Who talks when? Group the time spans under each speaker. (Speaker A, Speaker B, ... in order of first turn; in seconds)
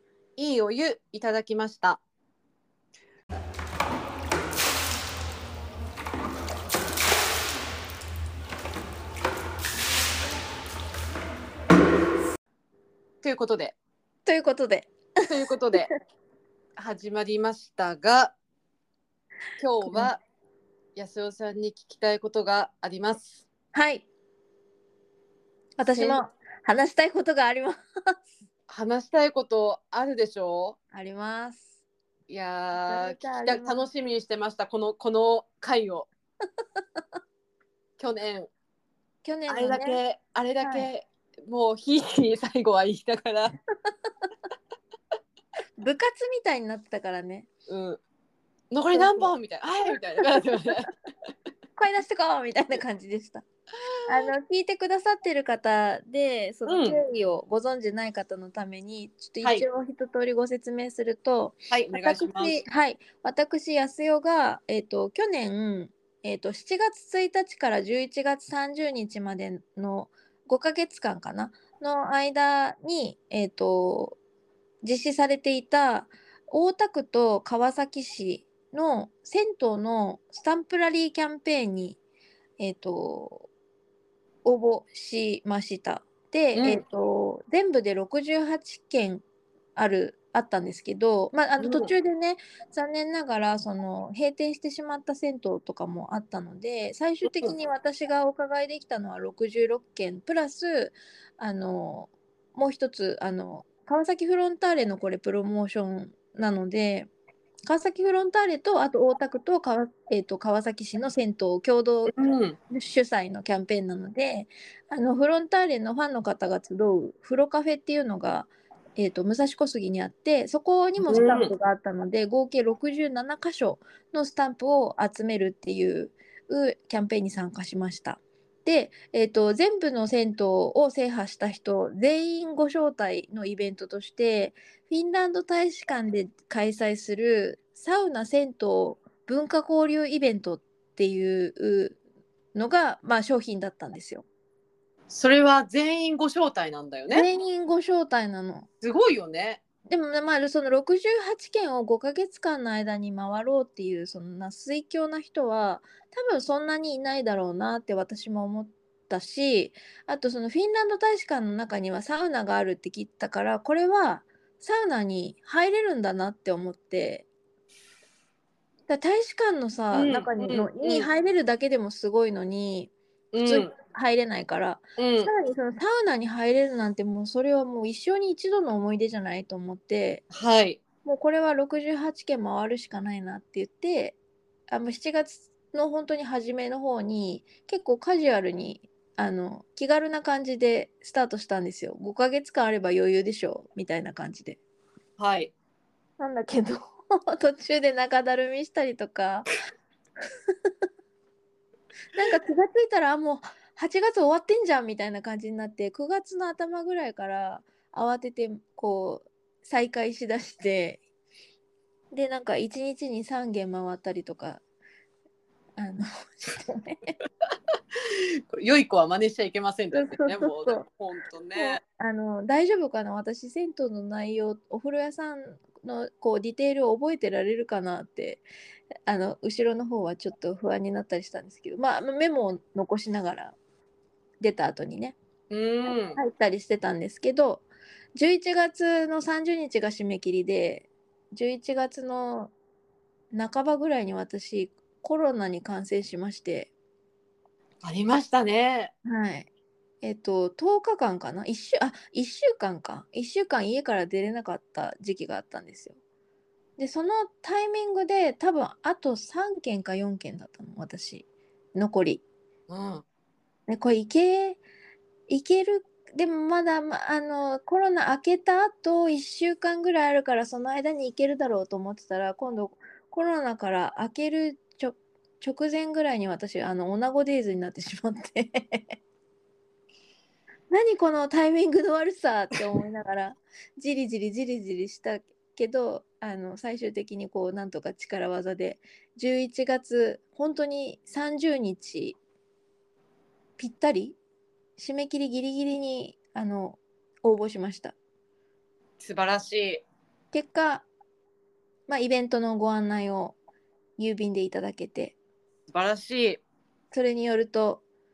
Speaker A: 0.4-2.0, 13.2-13.8, 15.3-15.9, 16.8-18.3, 19.6-20.2, 21.0-23.4, 25.9-26.2, 28.7-30.8, 32.3-36.1, 38.0-38.5, 39.5-43.5, 47.7-48.0, 48.7-50.9, 56.7-57.0, 61.7-62.6, 86.5-86.8, 91.6-91.9, 97.3-97.5, 112.1-112.6, 121.0-121.5, 145.1-147.3, 148.8-149.6, 169.9-171.1, 173.3-173.7, 175.0-175.3, 180.3-180.8, 195.2-195.5, 218.1-221.8, 235.5-236.2, 247.8-248.9, 262.7-263.0, 299.0-299.8, 305.7-306.4
Speaker B: 14.2-15.0, 19.8-20.1, 23.7-24.1, 25.8-27.8, 30.9-31.7, 32.8-33.8, 39.2-40.0, 40.6-40.9, 45.8-47.5, 48.9-49.3, 51.8-53.5, 54.1-74.2, 74.8-82.0, 82.6-83.5, 84.5-89.2, 89.8-107.1, 107.7-112.2, 112.7-142.0, 142.5-144.2, 147.1-148.7, 149.9-167.3, 168.9-180.2, 181.0-184.2, 184.7-194.6, 196.2-199.5, 202.1-211.0, 212.1-214.6, 215.8-217.2, 219.9-220.9, 221.6-228.4, 229.1-233.6, 234.4-235.2, 235.9-242.5, 243.3-246.7, 249.1-249.5, 250.0-256.0, 256.8-262.2, 263.7-264.6, 265.3-278.9, 280.7-292.2, 293.6-294.2, 294.8-298.0, 300.3-300.9, 301.9-303.4, 304.0-305.2, 306.9-307.8